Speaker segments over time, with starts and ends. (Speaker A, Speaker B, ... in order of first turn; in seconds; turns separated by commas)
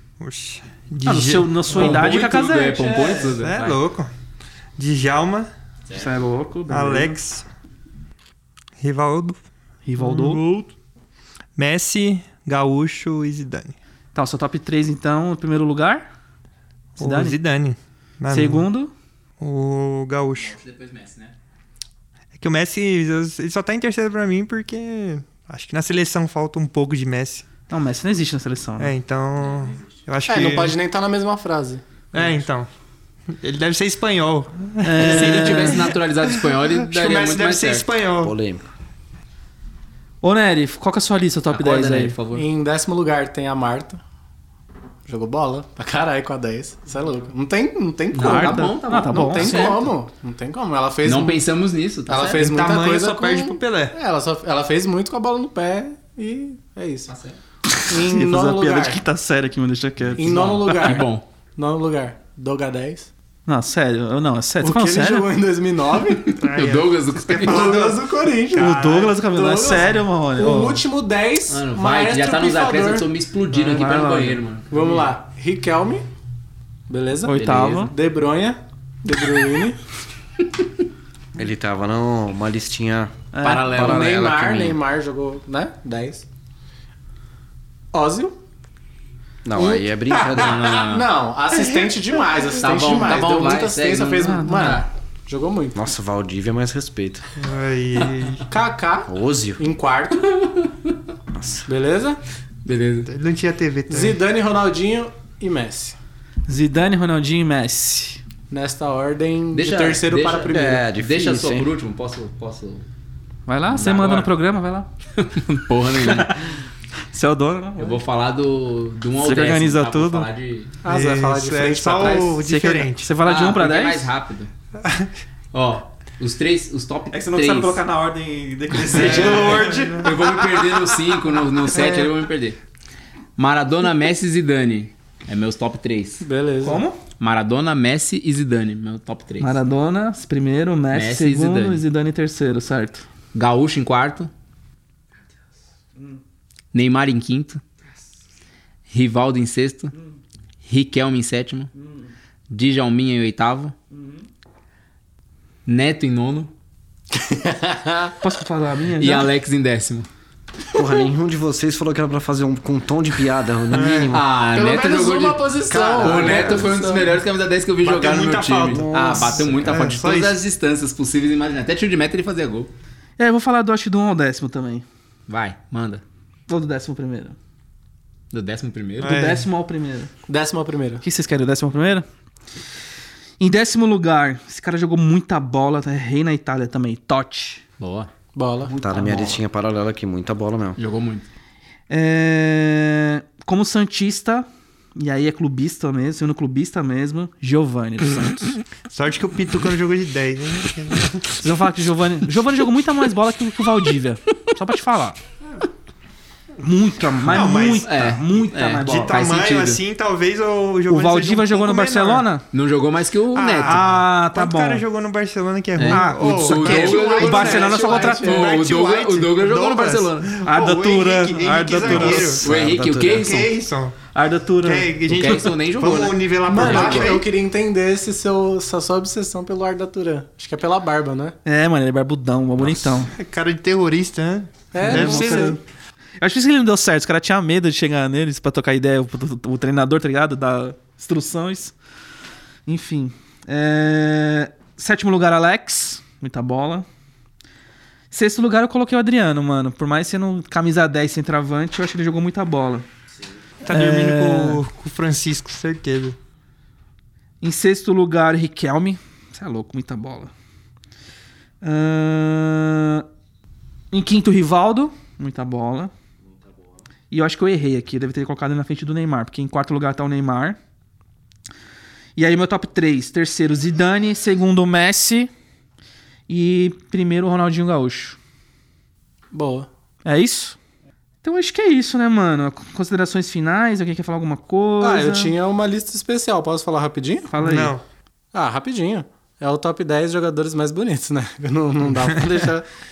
Speaker A: 0.2-2.2, Speaker B: 1.1-3.4, Speaker C: 1.7-3.8, Speaker A: 3.4-4.1, Speaker A: 4.8-5.5, Speaker B: 5.9-7.2, Speaker A: 6.7-7.5, Speaker A: 8.8-9.4, Speaker B: 9.9-10.4, Speaker A: 10.0-10.7, Speaker A: 11.6-13.8, Speaker B: 14.2-16.1, Speaker A: 17.0-18.7, Speaker B: 17.0-17.4, Speaker B: 18.3-18.9, Speaker A: 19.4-20.6, Speaker C: 20.4-21.3, Speaker A: 22.4-27.5, Speaker B: 27.7-28.9, Speaker A: 28.8-30.8, Speaker D: 30.3-31.8, Speaker A: 32.1-32.7, Speaker A: 33.4-38.4, Speaker B: 34.8-35.9, Speaker C: 35.0-37.9, Speaker E: 38.2-38.7, Speaker B: 40.2-42.2, Speaker C: 41.5-42.5, Speaker D: 42.3-44.0, Speaker D: 45.1-51.4, Speaker C: 48.1-49.9, Speaker B: 48.1-49.9, Speaker C: 51.0-52.4, Speaker D: 52.1-57.1, Speaker A: 52.4-54.0, Speaker C: 57.1-57.4, Speaker B: 57.7-61.0, Speaker D: 57.9-59.0, Speaker C: 60.1-61.2, Speaker D: 60.2-63.1, Speaker B: 63.5-65.3, Speaker D: 64.6-66.4, Speaker C: 66.1-67.7, Speaker A: 66.4-69.2, Speaker D: 67.3-73.1, Speaker B: 68.6-70.8, Speaker A: 69.7-69.9, Speaker C: 71.5-75.1, Speaker B: 73.5-74.4, Speaker D: 74.7-76.0, Speaker D: 76.9-79.8, Speaker B: 77.2-77.9, Speaker C: 77.4-77.9, Speaker E: 81.4-84.8, Speaker B: 83.3-83.8, Speaker C: 83.4-84.5, Speaker D: 83.7-86.2, Speaker D: 87.9-88.4, Speaker E: 89.5-90.8, Speaker D: 89.5-95.8, Speaker C: 90.3-91.1, Speaker A: 91.6-91.9, Speaker C: 92.6-94.3, Speaker B: 94.2-94.8, Speaker E: 95.8-97.3, Speaker A: 97.4-98.5, Speaker D: 98.5-100.3, Speaker E: 99.1-99.6, Speaker C: 100.3-100.9, Speaker E: 101.3-101.7, Speaker D: 101.7-102.2, Speaker C: 102.7-103.1, Speaker A: 103.1-104.2, Speaker D: 103.9-106.0, Speaker B: 106.5-108.2, Speaker D: 108.5-110.8, Speaker C: 109.5-112.9, Speaker E: 110.5-111.7, Speaker B: 113.5-114.9, Speaker C: 113.7-114.3, Speaker C: 115.2-116.4, Speaker B: 115.6-116.6, Speaker B: 117.1-118.0, Speaker C: 117.8-120.8, Speaker B: 119.2-120.3, Speaker D: 120.8-122.4, Speaker A: 120.9-123.1, Speaker B: 122.4-124.1, Speaker C: 123.2-124.5, Speaker A: 124.8-125.1, Speaker C: 125.5-127.8, Speaker B: 127.1-130.2, Speaker A: 128.9-130.4, Speaker D: 129.0-129.7, Speaker C: 129.0-132.6, Speaker A: 131.7-132.1, Speaker C: 133.4-136.2, Speaker D: 136.2-136.8, Speaker B: 136.6-137.0, Speaker C: 137.2-139.6, Speaker B: 139.4-143.1, Speaker C: 140.9-141.8, Speaker C: 143.3-144.3, Speaker C: 146.7-147.6, Speaker C: 148.9-149.9, Speaker C: 150.6-151.7, Speaker C: 152.5-153.8, Speaker B: 153.9-154.2, Speaker C: 155.7-156.5, Speaker D: 157.1-158.2, Speaker B: 158.2-159.3, Speaker C: 159.0-160.1, Speaker E: 160.7-164.3, Speaker A: 163.7-164.2, Speaker C: 164.1-165.4, Speaker D: 164.5-167.1, Speaker E: 165.7-167.0, Speaker C: 166.0-172.7, Speaker A: 167.8-170.4, Speaker E: 168.7-169.9, Speaker B: 173.2-174.8, Speaker C: 175.3-176.0, Speaker B: 176.5-177.4, Speaker C: 178.3-179.2, Speaker B: 179.0-180.1, Speaker A: 179.0-179.5, Speaker D: 180.3-181.0, Speaker B: 181.0-182.1, Speaker B: 183.4-187.6, Speaker C: 187.8-188.1, Speaker D: 188.3-188.8, Speaker B: 188.7-189.4, Speaker E: 188.8-190.8, Speaker C: 190.8-191.3, Speaker B: 191.9-198.6, Speaker A: 198.9-201.4, Speaker B: 201.4-205.2, Speaker B: 206.6-209.2, Speaker A: 207.2-208.1, Speaker C: 207.8-209.8, Speaker A: 208.8-212.3, Speaker B: 210.9-212.4, Speaker C: 212.5-214.0, Speaker A: 213.3-222.5, Speaker B: 213.7-214.8, Speaker C: 215.8-220.3, Speaker B: 215.8-218.3, Speaker D: 216.7-218.5, Speaker B: 220.4-222.3, Speaker E: 221.8-223.3, Speaker C: 222.4-223.5, Speaker A: 223.1-223.9, Speaker B: 224.2-225.4, Speaker A: 224.6-227.2, Speaker C: 225.1-227.2, Speaker D: 226.5-231.4, Speaker B: 231.4-233.1, Speaker A: 232.6-235.6, Speaker D: 234.7-235.6, Speaker B: 234.8-235.6, Speaker B: 236.2-241.8, Speaker B: 242.7-246.9, Speaker B: 248.1-252.9, Speaker A: 253.7-256.2, Speaker B: 253.7-254.6, Speaker B: 257.4-260.3, Speaker B: 261.6-263.1, Speaker B: 263.9-265.9, Speaker B: 267.1-270.6, Speaker B: 272.2-275.3, Speaker B: 276.3-278.2, Speaker D: 279.3-279.7, Speaker B: 280.1-280.6, Speaker B: 281.2-285.3, Speaker D: 284.8-287.3, Speaker B: 287.3-287.8, Speaker A: 287.4-287.8, Speaker D: 288.3-292.7